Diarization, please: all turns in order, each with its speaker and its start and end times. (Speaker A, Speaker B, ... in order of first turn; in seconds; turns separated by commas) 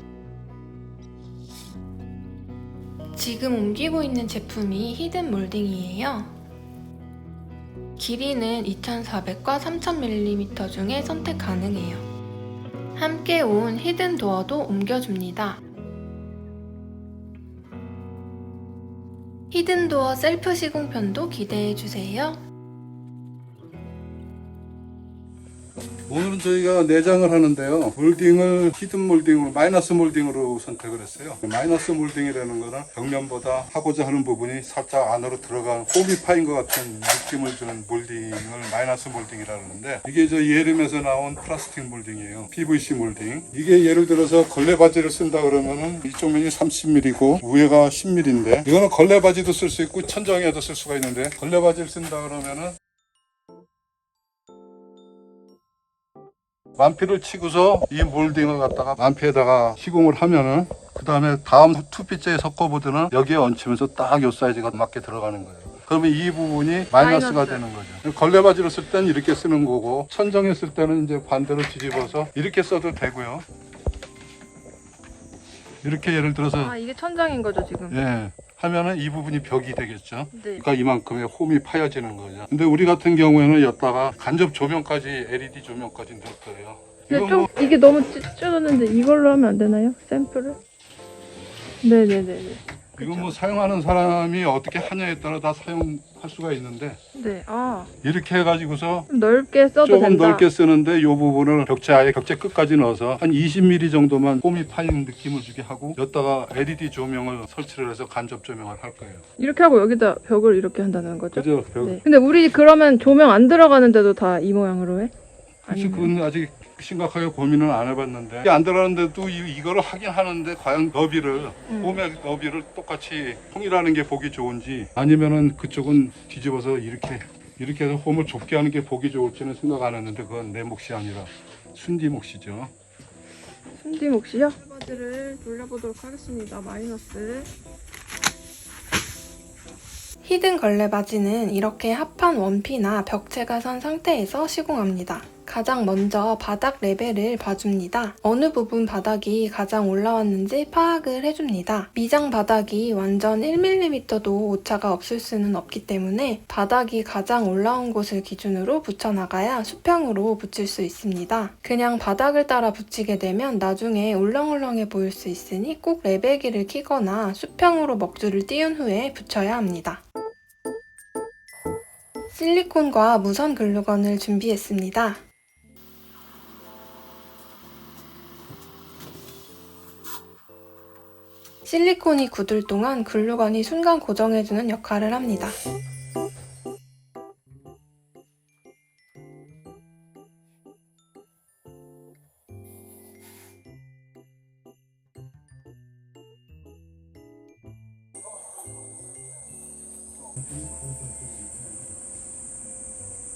Speaker A: 3.1-6.3, Speaker A: 8.0-12.1, Speaker A: 13.0-15.6, Speaker A: 19.5-22.4, Speaker B: 26.1-52.8, Speaker B: 56.8-73.5, Speaker C: 67.0-67.6, Speaker B: 75.8-76.8, Speaker C: 76.6-78.0, Speaker B: 77.9-87.5, Speaker C: 80.3-80.6, Speaker C: 87.1-90.6, Speaker C: 91.8-93.3, Speaker B: 93.0-97.0, Speaker C: 97.2-97.9, Speaker B: 98.0-99.1, Speaker C: 99.1-100.5, Speaker B: 99.8-109.2, Speaker C: 109.4-115.1, Speaker B: 111.3-112.0, Speaker C: 115.7-116.1, Speaker B: 115.7-132.7, Speaker C: 121.7-122.0, Speaker C: 133.8-137.5, Speaker A: 140.2-170.0, Speaker A: 172.3-175.2, Speaker A: 181.7-185.6